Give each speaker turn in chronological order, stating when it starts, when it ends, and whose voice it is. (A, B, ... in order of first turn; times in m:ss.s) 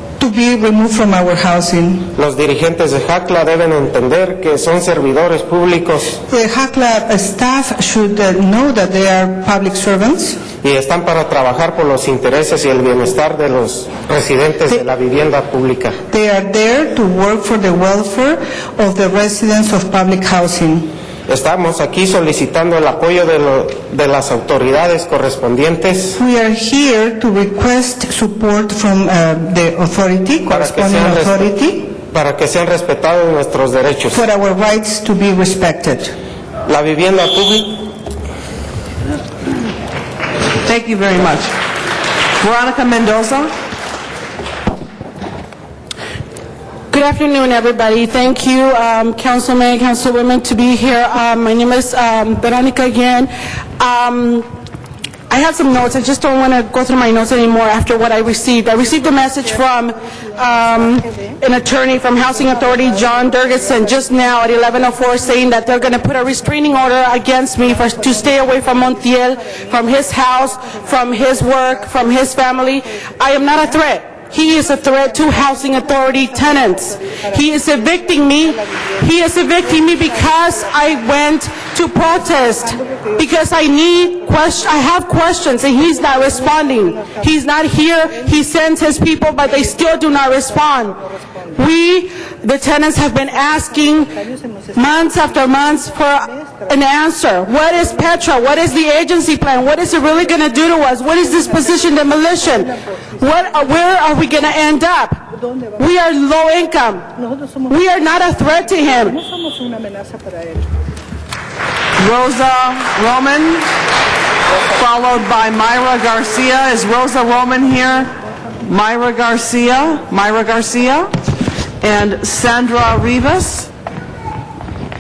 0:00.2-0:02.1 A
0:02.2-0:06.2 B
0:06.3-0:10.4 A
0:10.6-0:16.0 B
0:16.1-0:20.9 A
0:21.3-0:26.2 B
0:26.2-0:31.9 A
0:30.5-0:31.5 B
0:32.1-0:34.2 B
0:34.1-0:36.1 A
0:36.7-0:37.8 B
0:40.7-0:41.5 C
0:42.4-0:43.5 C
0:46.9-0:54.5 D
0:55.3-1:31.0 D
1:31.6-1:34.2 D
1:34.7-1:45.2 D
1:45.8-1:47.1 D
1:47.7-1:49.2 D
1:52.0-1:53.7 C
1:54.5-2:01.1 C
2:01.8-2:03.7 C